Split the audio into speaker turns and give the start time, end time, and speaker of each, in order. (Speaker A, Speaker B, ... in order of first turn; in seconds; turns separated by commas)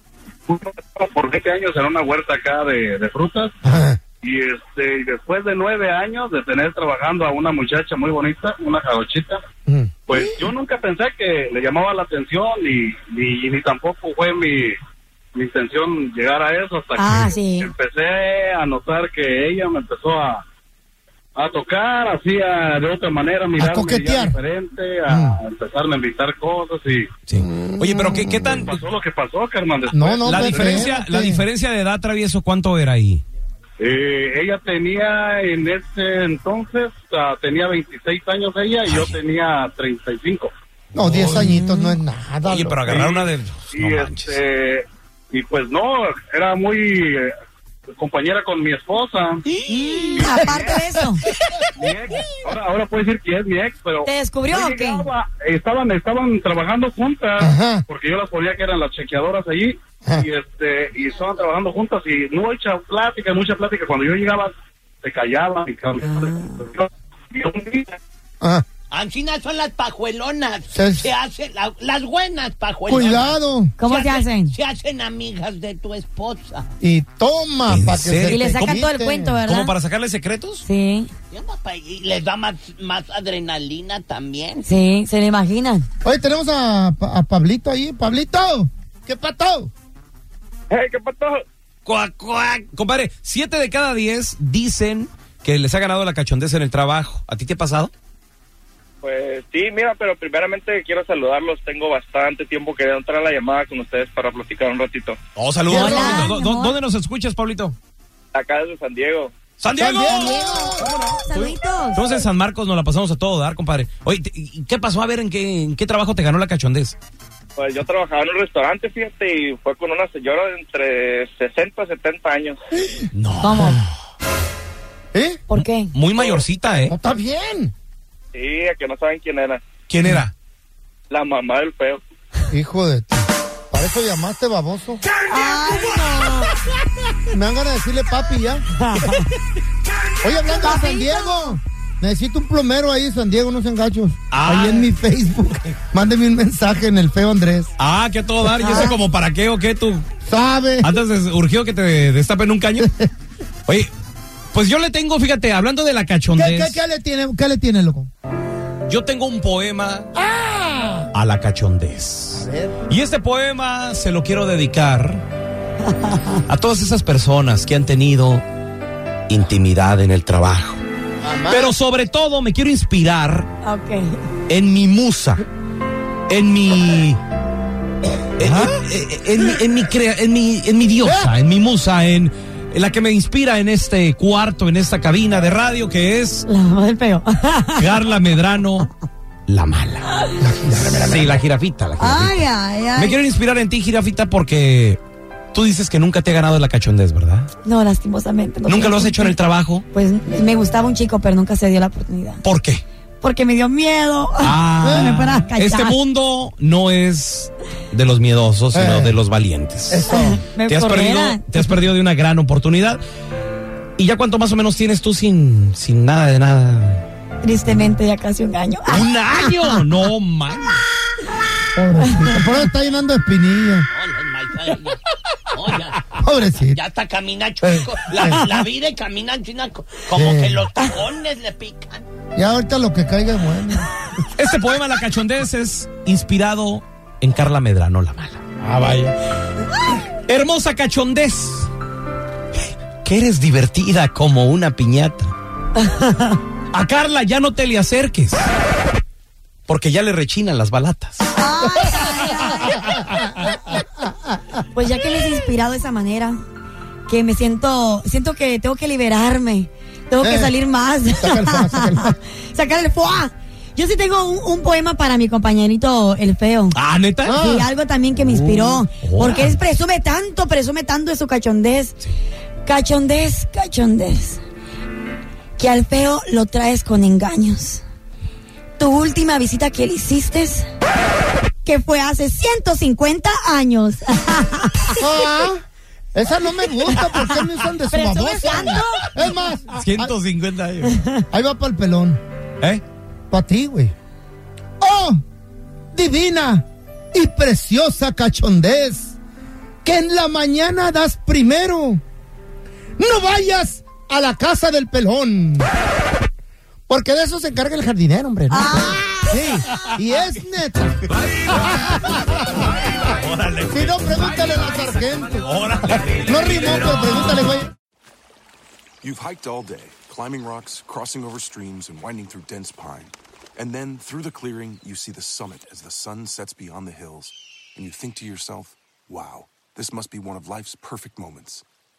Speaker A: 0.5-3.5, Speaker B: 3.6-4.0, Speaker A: 4.2-9.4, Speaker B: 9.7-10.3, Speaker A: 10.1-14.7, Speaker A: 15.3-20.4, Speaker C: 16.9-17.7, Speaker A: 21.4-27.1, Speaker B: 23.6-24.4, Speaker B: 25.1-25.4, Speaker D: 27.3-28.8, Speaker B: 27.3-28.6, Speaker A: 28.6-30.9, Speaker B: 29.9-31.4, Speaker D: 30.2-33.2, Speaker A: 33.8-40.5, Speaker D: 38.8-39.2, Speaker B: 40.9-42.8, Speaker D: 41.0-41.5, Speaker C: 41.4-42.0, Speaker D: 42.4-44.4, Speaker A: 42.9-47.3, Speaker A: 48.0-49.4, Speaker C: 49.6-51.2, Speaker A: 50.1-50.8, Speaker A: 51.8-68.0, Speaker C: 54.0-55.1, Speaker B: 57.4-57.8, Speaker E: 61.1-61.4, Speaker C: 66.0-66.6, Speaker E: 68.9-76.7, Speaker B: 70.7-71.1, Speaker B: 72.8-73.7, Speaker C: 73.8-74.5, Speaker B: 76.8-79.4, Speaker D: 77.7-78.8, Speaker C: 78.3-79.7, Speaker D: 79.5-80.6, Speaker C: 80.6-81.1, Speaker E: 81.3-84.7, Speaker C: 84.6-85.8, Speaker B: 86.0-89.7, Speaker F: 90.7-91.4, Speaker D: 91.8-97.9, Speaker F: 99.0-105.2, Speaker D: 105.3-107.8, Speaker B: 105.7-106.3, Speaker C: 105.7-106.8, Speaker F: 108.3-109.3, Speaker D: 109.6-110.5, Speaker B: 109.8-110.9, Speaker C: 110.0-112.1, Speaker D: 111.3-117.0, Speaker F: 117.6-122.6, Speaker B: 122.7-123.1, Speaker D: 123.1-123.9, Speaker C: 123.4-123.8, Speaker B: 125.1-125.4, Speaker C: 125.5-125.9, Speaker D: 125.9-126.9, Speaker B: 126.8-127.7, Speaker F: 128.3-129.6, Speaker D: 129.9-130.3, Speaker F: 131.1-132.0, Speaker B: 132.5-135.0, Speaker C: 135.3-136.5, Speaker B: 137.3-138.6, Speaker C: 138.8-139.2, Speaker B: 140.2-147.7, Speaker C: 140.5-141.6, Speaker D: 144.3-144.9, Speaker D: 147.8-150.1, Speaker C: 148.6-149.0, Speaker B: 150.2-150.9, Speaker D: 150.8-152.9, Speaker B: 152.8-153.1, Speaker D: 154.5-156.8, Speaker B: 156.3-158.1, Speaker D: 158.9-160.1, Speaker B: 160.1-161.1, Speaker D: 161.1-165.2, Speaker B: 162.3-162.8, Speaker D: 166.3-168.4, Speaker D: 169.3-170.8, Speaker B: 171.2-171.7, Speaker D: 171.5-173.5, Speaker C: 173.6-174.2, Speaker D: 174.5-175.4, Speaker D: 176.3-177.2, Speaker D: 178.4-186.4, Speaker B: 178.4-178.7, Speaker B: 181.0-181.3, Speaker C: 186.4-187.9, Speaker D: 187.8-188.9, Speaker D: 189.5-190.2, Speaker B: 190.4-191.4, Speaker D: 190.7-195.0, Speaker C: 192.0-193.2, Speaker D: 195.5-197.5, Speaker C: 197.6-199.3, Speaker D: 198.7-199.8, Speaker C: 199.9-202.4, Speaker D: 202.4-202.8, Speaker C: 203.2-206.0, Speaker D: 204.4-210.1, Speaker B: 204.8-205.2, Speaker B: 208.7-209.2, Speaker B: 209.9-210.4, Speaker C: 210.1-211.8, Speaker D: 210.7-213.0, Speaker D: 214.0-217.0, Speaker C: 217.4-219.8, Speaker D: 218.9-220.8, Speaker B: 221.8-223.9, Speaker C: 222.1-222.4, Speaker E: 223.8-232.1, Speaker B: 226.1-226.8, Speaker B: 227.6-228.5, Speaker B: 230.1-230.7, Speaker B: 232.3-234.0, Speaker D: 234.3-239.1, Speaker D: 240.3-241.7, Speaker D: 243.0-245.3, Speaker C: 245.8-246.4, Speaker D: 246.7-248.5, Speaker D: 249.7-251.3, Speaker C: 251.3-253.0, Speaker B: 251.7-253.0, Speaker C: 254.7-256.4, Speaker C: 257.1-266.8, Speaker B: 260.2-260.5, Speaker B: 261.2-262.2, Speaker D: 266.7-267.4, Speaker B: 267.2-267.7, Speaker C: 267.4-272.0, Speaker D: 268.2-269.6, Speaker C: 272.6-274.4, Speaker C: 275.6-277.8, Speaker C: 278.8-280.7, Speaker C: 281.6-284.9, Speaker B: 285.0-290.1, Speaker C: 287.9-289.1, Speaker D: 289.8-291.0, Speaker B: 291.3-292.2, Speaker B: 293.3-293.9, Speaker B: 294.8-295.2, Speaker B: 295.9-299.2, Speaker B: 299.8-302.0, Speaker B: 303.0-305.7, Speaker B: 306.9-312.6, Speaker C: 308.5-309.1, Speaker D: 311.1-317.2, Speaker B: 313.7-317.7, Speaker G: 319.0-331.6